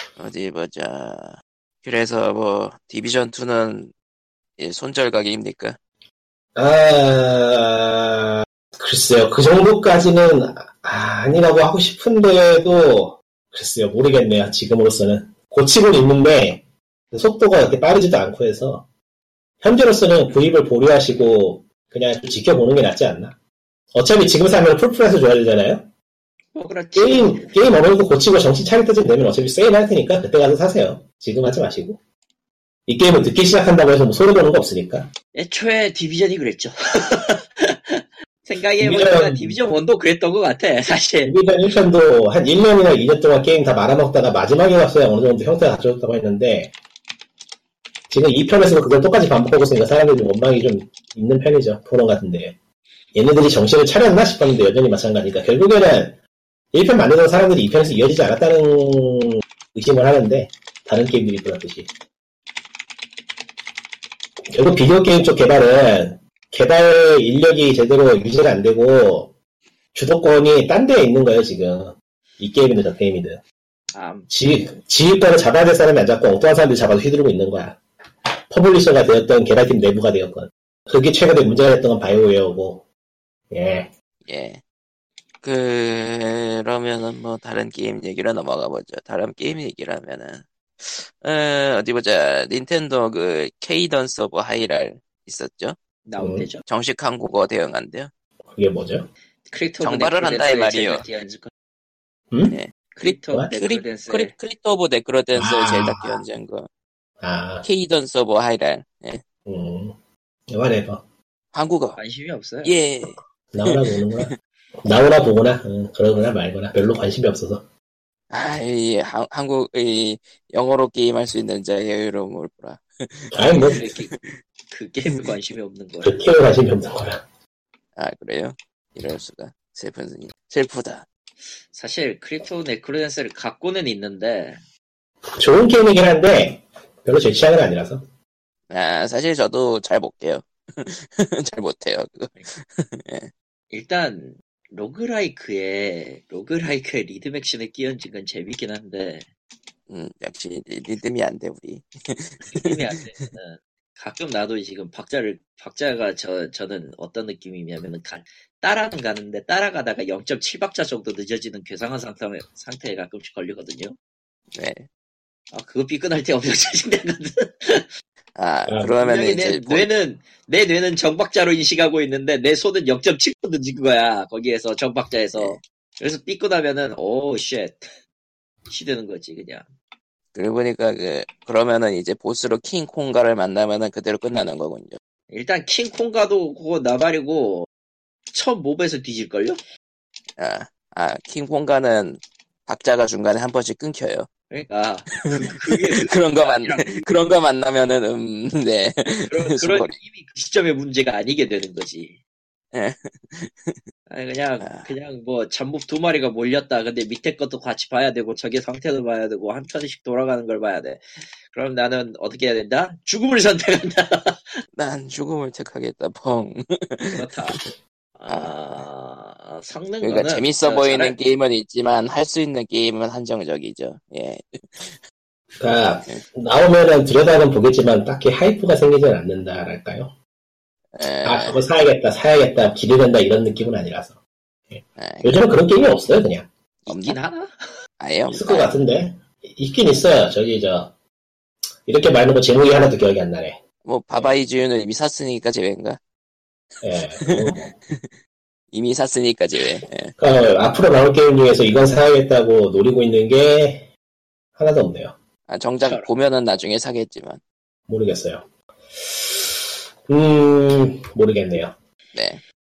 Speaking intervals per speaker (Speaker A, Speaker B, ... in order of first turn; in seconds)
Speaker A: 0.2-3.9, 4.6-5.8, 84.3-84.6, 85.4-95.8, 96.7-98.1, 99.8-101.0, 103.5-106.7, 107.6-109.2, 111.5-112.0, 112.6-114.3, 118.3-124.4, 128.0-131.1, 138.7-143.3, 149.9-153.3, 164.5-164.9, 168.4-169.9, 180.3-185.0, 190.4-194.3, 195.3-200.0, 202.7-203.8, 204.6-204.9, 214.8-217.7, 218.3-218.8, 220.0-225.0, 230.9-231.6, 235.0-235.4, 236.9-237.2, 238.0-238.7, 243.8-246.0, 247.2-248.1, 248.7-250.2, 255.5-257.4, 262.1-262.4
Speaker B: 6.6-18.9, 19.6-23.4, 23.9-25.9, 27.0-32.0, 32.9-35.1, 38.8-39.6, 41.2-46.7, 48.1-52.6, 53.1-56.2, 56.7-61.9, 64.5-69.3, 69.9-73.4, 74.3-77.8, 78.5-82.8, 83.5-83.9, 96.2-96.5, 98.5-99.1, 102.3-103.5, 105.4-106.2, 107.2-107.7, 109.5-110.0, 110.5-111.0, 113.5-114.3, 114.8-117.6, 123.3-123.9, 126.0-127.2, 135.4-138.0, 168.7-168.9, 225.6-230.1, 231.2-234.2, 234.7-236.5, 238.3-240.9, 241.8-243.6, 246.8-247.7, 250.2-253.9, 254.6-255.2, 257.9-258.5, 259.0-261.7
Speaker C: 26.5-27.6, 35.4-41.4, 73.9-74.3, 96.1-96.6, 99.5-101.5, 102.9-104.3, 112.0-112.7, 123.5-124.1, 124.7-126.2, 131.7-134.6, 143.7-149.3, 152.5-164.0, 165.5-167.9, 169.0-177.9, 178.7-179.7, 185.3-187.7, 188.3-189.6, 194.5-197.1, 199.3-202.2, 204.1-214.6, 217.1-217.6, 218.2-221.2, 236.9-237.7, 255.8-256.1